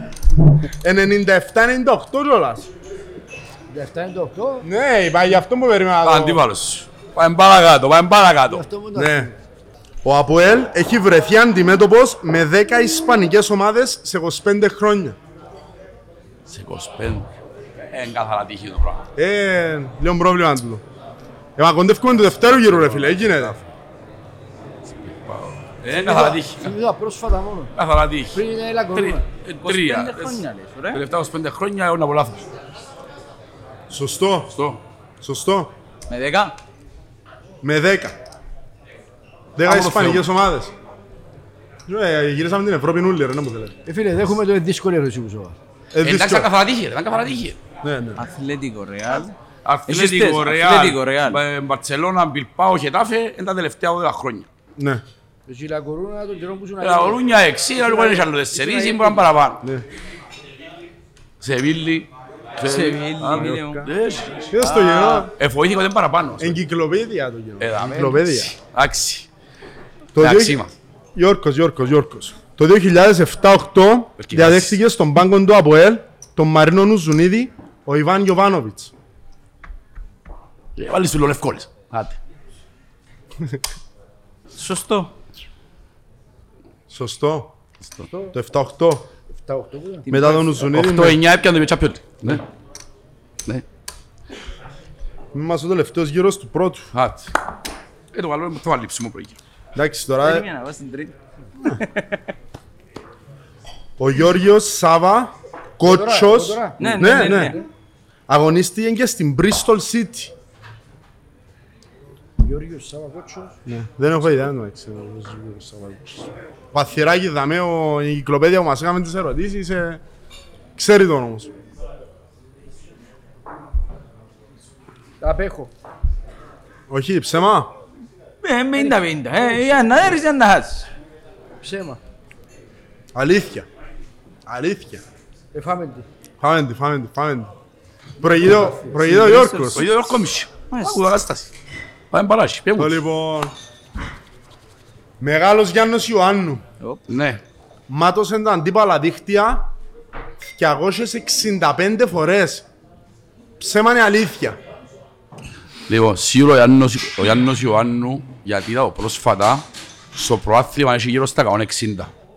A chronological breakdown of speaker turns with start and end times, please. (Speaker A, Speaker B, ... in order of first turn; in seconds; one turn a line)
Speaker A: 0.7-2.7
Speaker B: 3.7-4.7
Speaker A: 4.6-6.4
Speaker C: 6.0-8.7
Speaker B: 8.5-9.3
Speaker A: 8.9-9.3
Speaker A: 10.0-15.2
Speaker C: 16.5-17.3
Speaker C: 17.9-19.1
Speaker A: 19.2-20.8
Speaker A: 21.6-23.6
Speaker C: 22.5-23.6
Speaker C: 24.9-26.7
Speaker B: 25.9-27.7
Speaker C: 27.8-28.4
Speaker B: 28.3-29.2
Speaker C: 28.9-32.5
Speaker D: 29.6-31.0
Speaker A: 33.9-34.5
Speaker C: 34.5-34.8
Speaker A: 35.2-35.7
Speaker D: 36.1-36.6
Speaker A: 37.6-38.2
Speaker A: 39.6-40.7
Speaker C: 39.6-40.3
Speaker A: 41.9-43.8
Speaker B: 43.9-45.6
Speaker A: 45.9-46.5
Speaker C: 46.0-47.6
Speaker A: 47.8-48.2
Speaker D: 48.2-49.4
Speaker C: 49.6-54.5
Speaker D: 49.9-51.4
Speaker A: 54.8-55.0
Speaker B: 55.5-57.2
Speaker C: 56.8-59.6
Speaker B: 57.8-59.3
Speaker C: 61.4-64.5
Speaker D: 62.6-63.8
Speaker A: 63.3-63.9
Speaker A: 64.5-65.3
Speaker D: 64.6-65.3
Speaker C: 65.3-66.6
Speaker A: 66.4-68.5
Speaker C: 67.6-69.3
Speaker A: 70.2-70.6
Speaker C: 70.2-70.7
Speaker A: 71.2-78.9
Speaker C: 74.2-74.8
Speaker C: 80.8-82.2
Speaker D: 84.5-85.1
Speaker A: 86.9-87.5
Speaker A: 88.3-89.1
Speaker B: 89.4-90.1
Speaker A: 90.1-91.2
Speaker D: 90.1-90.6
Speaker C: 90.7-92.4
Speaker A: 95.3-96.9
Speaker C: 96.9-97.3
Speaker C: 98.1-99.4
Speaker A: 99.8-100.5
Speaker D: 100.2-101.2
Speaker D: 101.7-102.2
Speaker A: 104.0-107.6
Speaker B: 105.8-107.7
Speaker D: 106.8-107.6
Speaker A: 108.3-110.3
Speaker B: 112.4-113.5
Speaker A: 113.7-120.0
Speaker A: 120.8-121.5
Speaker B: 125.2-125.7
Speaker A: 126.9-127.7
Speaker D: 128.4-130.9
Speaker B: 131.6-132.0
Speaker A: 133.1-133.7
Speaker A: 134.5-135.0
Speaker B: 135.5-136.1
Speaker A: 136.4-137.5
Speaker A: 138.2-139.9
Speaker B: 138.4-139.1
Speaker D: 139.0-139.8
Speaker C: 139.7-141.5
Speaker D: 140.7-141.0
Speaker C: 142.1-143.0
Speaker A: 142.8-143.5
Speaker A: 145.2-146.6
Speaker C: 147.1-147.4
Speaker A: 147.9-149.7
Speaker A: 150.4-152.7
Speaker A: 153.6-154.6
Speaker C: 155.9-162.1